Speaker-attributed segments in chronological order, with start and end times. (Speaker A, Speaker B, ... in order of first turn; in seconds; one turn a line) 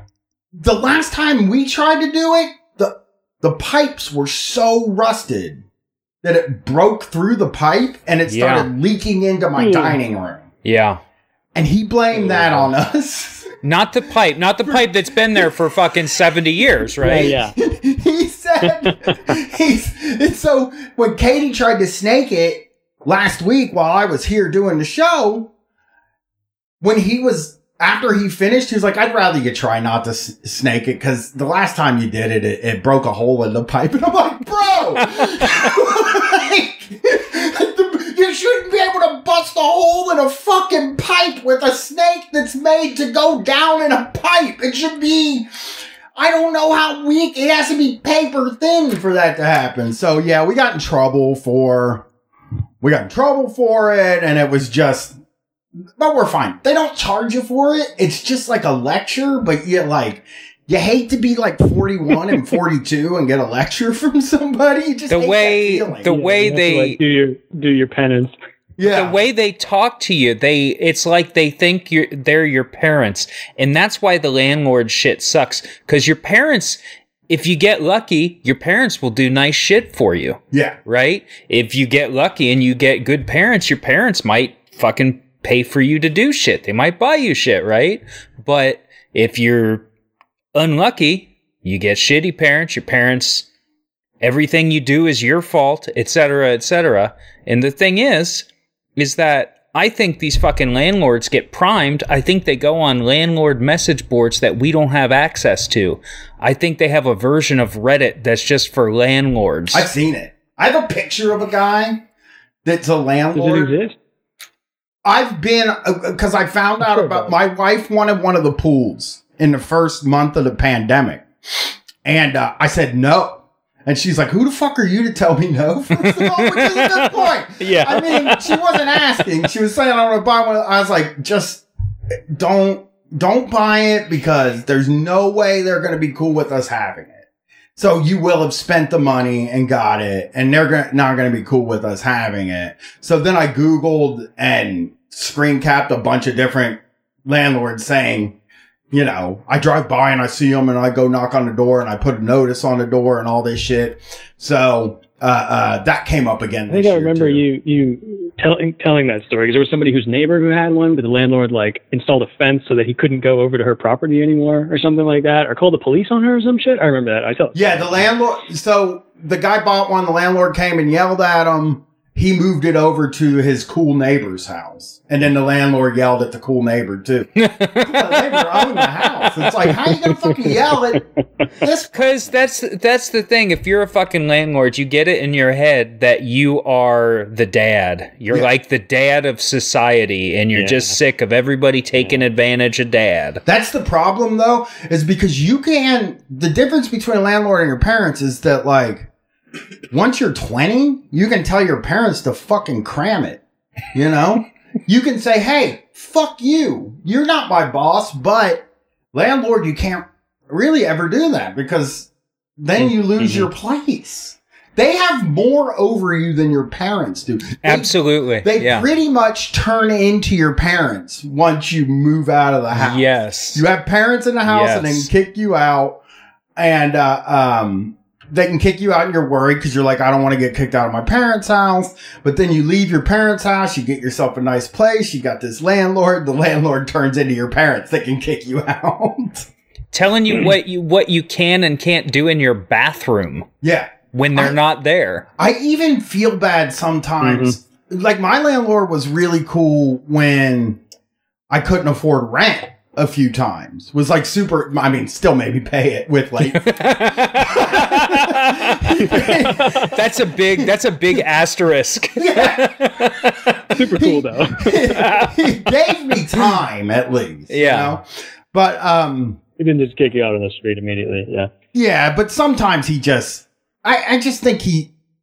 Speaker A: 0.6-5.6
Speaker A: 6.2-10.5
Speaker B: 8.3-8.7
Speaker C: 9.6-10.0
Speaker B: 10.7-11.0
Speaker A: 11.6-13.5
Speaker C: 12.1-12.7
Speaker B: 13.6-17.4
Speaker A: 14.6-15.5
Speaker A: 16.8-25.5
Speaker C: 17.0-17.6
Speaker C: 18.6-19.4
Speaker A: 26.8-45.5
Speaker A: 46.1-52.0
Speaker A: 52.8-55.2
Speaker A: 56.0-66.1
Speaker B: 65.1-67.0
Speaker C: 66.0-68.3
Speaker A: 68.8-69.2
Speaker B: 68.9-76.8
Speaker B: 77.3-89.8
Speaker A: 80.5-80.8
Speaker B: 90.5-93.5
Speaker B: 94.2-109.9
Speaker A: 109.7-112.0
Speaker A: 112.7-113.7
Speaker C: 113.3-114.0
Speaker A: 115.0-131.7
Speaker C: 116.9-117.3
Speaker B: 126.0-129.0
Speaker A: 132.3-148.4
Speaker A: 148.9-157.4
Speaker C: 156.7-168.1
Speaker A: 167.5-181.1
Speaker B: 177.4-179.5
Speaker C: 180.2-181.0
Speaker A: 181.6-181.9
Speaker B: 181.9-193.4
Speaker C: 190.5-191.0
Speaker A: 193.5-199.1
Speaker A: 199.9-203.4
Speaker A: 203.9-226.0
Speaker B: 212.8-213.5
Speaker B: 217.6-218.9
Speaker B: 222.8-223.7
Speaker B: 224.4-225.1
Speaker A: 226.6-239.5
Speaker B: 239.9-243.5
Speaker A: 243.6-244.6
Speaker B: 244.1-245.2
Speaker A: 245.4-250.8
Speaker C: 247.2-247.6
Speaker A: 251.5-259.9
Speaker B: 256.5-259.3
Speaker C: 259.1-259.9
Speaker B: 259.8-263.4
Speaker A: 262.2-269.4
Speaker C: 263.8-265.3
Speaker B: 267.5-268.0
Speaker C: 269.6-271.5
Speaker A: 271.7-274.9